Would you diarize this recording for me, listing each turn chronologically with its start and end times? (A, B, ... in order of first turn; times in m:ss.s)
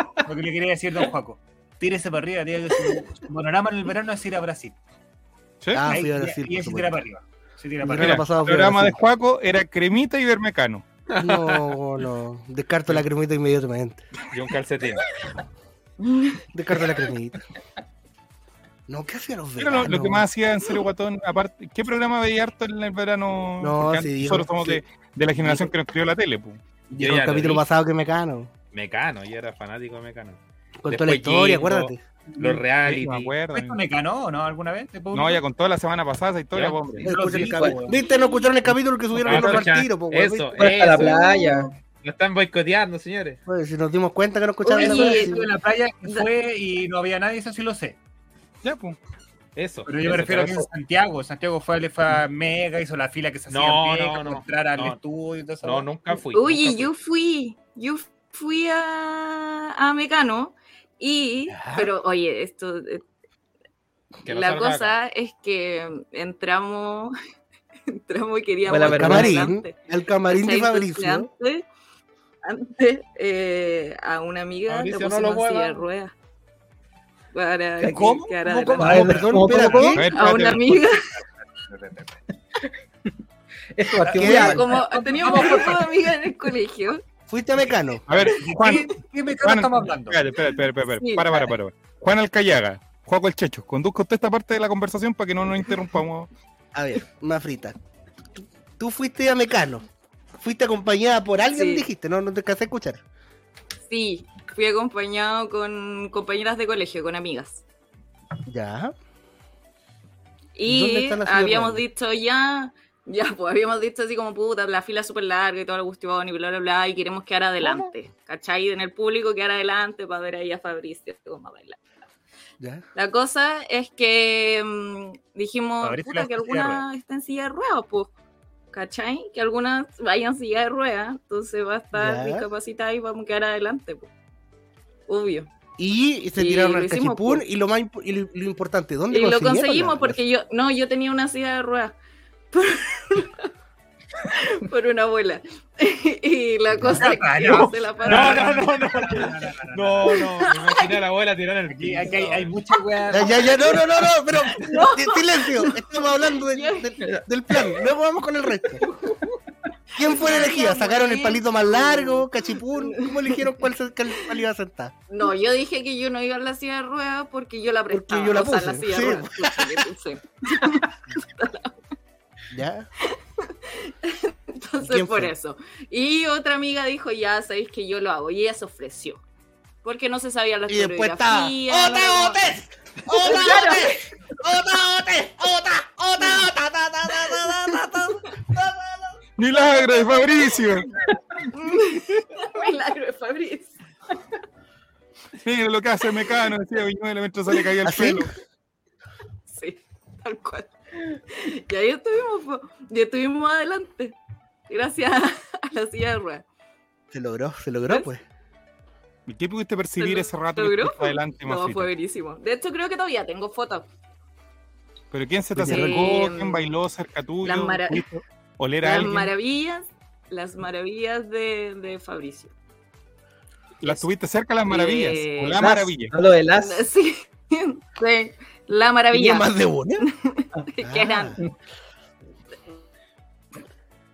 0:00.2-0:04.8 A
0:05.6-0:06.0 B
0:05.7-0:07.0 C
0:05.9-0:08.2 A
0:07.8-0:09.0 C
0:08.0-0:10.8 B
0:11.1-0:11.7 D
0:11.2-0:14.0 C
0:14.3-0:15.0 D
0:16.0-0:16.4 E
0:16.5-0:17.4 C
0:18.9-0:20.3 C
0:19.6-0:26.6 B
0:23.6-0:24.8 C
0:25.4-0:25.7 C
0:26.9-0:28.5 C
0:27.0-0:27.6 D
0:28.7-0:33.3 D
0:30.8-0:32.0 C
0:32.9-0:33.8 B
0:33.5-0:35.4 A
0:35.1-0:37.1 B
0:36.5-0:37.0 D
0:37.0-0:40.6 C
0:37.0-0:38.0 A
0:37.4-0:37.8 F
0:38.1-0:38.4 E
0:39.2-0:39.7 B
0:39.2-0:41.3 D
0:40.6-0:41.7 F
0:41.0-0:41.7 E
0:42.0-0:43.4 D
0:43.5-0:45.5 C
0:44.6-0:45.5 E
0:44.8-0:48.0 A
0:48.6-0:49.0 B
0:49.6-0:50.7 D
0:49.9-0:55.9 A
0:53.5-0:55.0 D
0:55.6-0:56.9 D
0:56.3-1:03.0 E
1:01.5-1:01.8 D
1:04.2-1:07.1 E
1:04.2-1:05.0 D
1:07.9-1:11.7 E
1:08.7-1:09.4 F
1:08.9-1:11.3 C
1:12.4-1:16.1 E
1:14.7-1:15.9 D
1:17.3-1:19.1 E
1:17.8-1:18.2 F
1:17.9-1:20.0 A
1:18.8-1:20.0 F
1:18.8-1:20.0 C
1:19.9-1:20.7 B
1:20.1-1:21.2 E
1:20.6-1:22.2 A
1:23.8-1:24.6 F
1:24.0-1:26.0 A
1:24.2-1:24.6 C
1:24.2-1:27.0 E
1:27.3-1:28.0 C
1:28.1-1:36.3 B
1:28.2-1:30.2 A
1:30.9-1:31.5 E
1:36.7-1:37.8 C
1:38.4-1:39.8 C
1:40.4-1:43.0 C
1:41.5-1:41.9 E
1:43.9-1:47.6 E
1:48.5-1:49.0 C
1:50.6-2:01.8 E
1:50.7-1:51.8 C
2:02.6-2:02.8 C
2:03.0-2:08.1 E
2:05.8-2:06.8 A
2:08.7-2:14.1 E
2:11.9-2:12.5 C
2:15.1-2:15.5 E
2:15.8-2:20.2 C
2:16.4-2:17.4 E
2:19.1-2:22.0 E
2:22.5-2:23.5 E
2:24.2-2:28.6 E
2:26.8-2:30.3 A
2:27.5-2:32.6 D
2:30.1-2:31.0 E
2:31.7-2:33.8 A
2:33.1-2:38.9 C
2:34.5-2:35.9 E
2:36.5-2:37.0 E
2:38.8-2:39.4 E
2:40.0-2:44.9 C
2:40.0-2:43.5 E
2:45.1-2:51.7 E
2:47.9-2:49.9 C
2:52.5-2:52.9 C
2:53.0-2:59.2 E
2:54.8-2:55.3 C
2:59.8-3:02.4 E
3:00.7-3:09.2 C
3:03.1-3:04.1 E
3:09.4-3:10.9 B
3:11.6-3:13.8 E
3:15.4-3:18.3 B
3:17.8-3:18.3 C
3:19.5-3:24.2 E
3:24.7-3:26.4 E
3:27.1-3:28.2 C
3:29.3-3:31.9 B
3:30.0-3:33.9 E
3:35.1-3:39.3 B
3:35.6-3:36.0 C
3:35.6-3:36.7 E
3:37.4-3:38.1 E
3:38.8-3:42.5 E
3:43.8-3:46.1 B
3:44.7-3:45.7 E
3:45.6-3:46.9 F
3:46.6-3:49.5 E
3:49.1-3:50.1 C
3:50.0-3:51.4 E
3:50.8-3:51.4 C